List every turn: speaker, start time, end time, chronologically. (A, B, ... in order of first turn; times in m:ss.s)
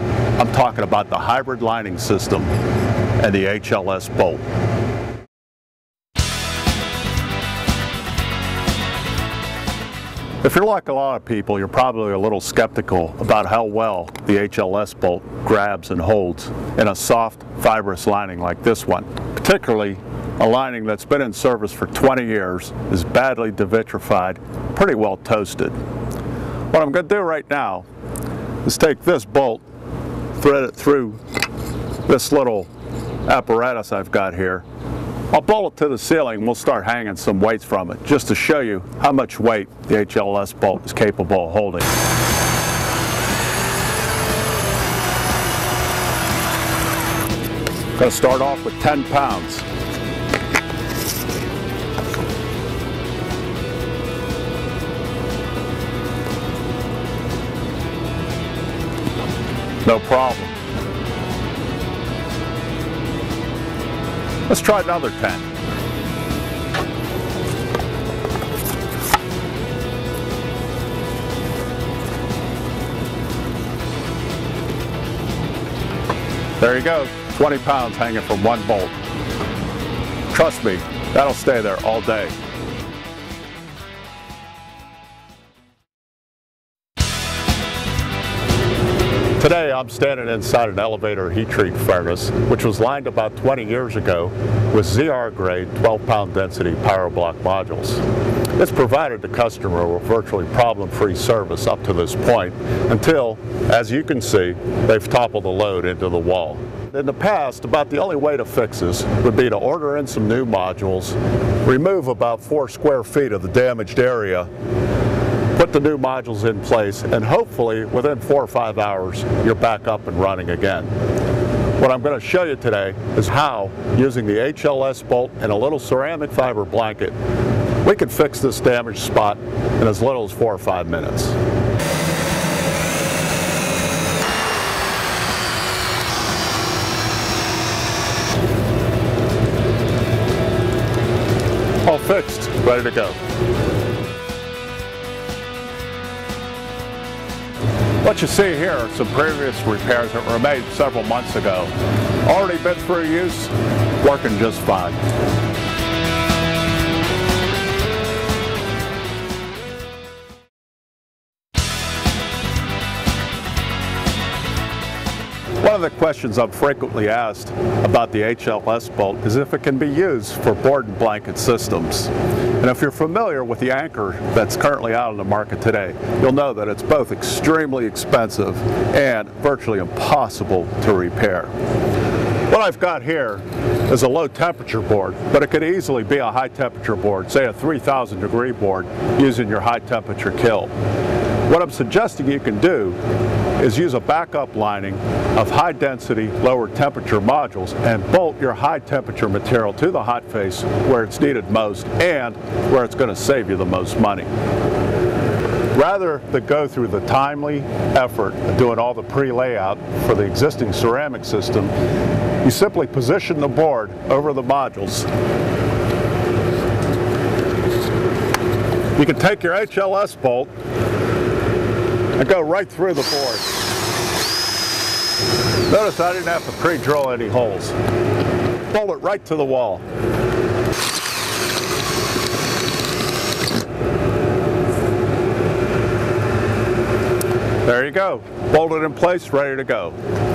0:00.4-0:02.5 A
0:03.2-0:04.4 A
0:10.4-0:25.8 A
0:26.7-0:27.8 A
0:28.6-0:29.6 A
0:30.3-0:31.2 A
0:32.0-0:32.7 A
0:33.2-0:34.6 A
0:35.3-0:41.9 A
0:48.0-0:49.6 A
0:59.8-1:00.6 A
1:04.5-1:05.5 A
1:16.6-1:19.0 A
1:20.3-1:22.3 A
1:29.4-1:38.0 A
1:38.6-1:54.5 A
1:55.5-2:00.9 A
2:01.8-2:07.1 A
2:07.8-2:11.4 A
2:21.8-2:23.2 A
2:28.0-2:31.7 A
2:32.2-2:35.0 A
2:45.6-3:01.5 A
3:02.5-3:10.7 A
3:11.4-3:13.0 A
3:13.6-3:24.3 A
3:25.7-3:31.7 A
3:32.4-3:35.1 A
3:38.9-3:40.5 A
3:42.2-3:43.5 A
3:45.7-3:47.8 A
3:48.7-3:49.8 A
3:57.6-4:00.0 A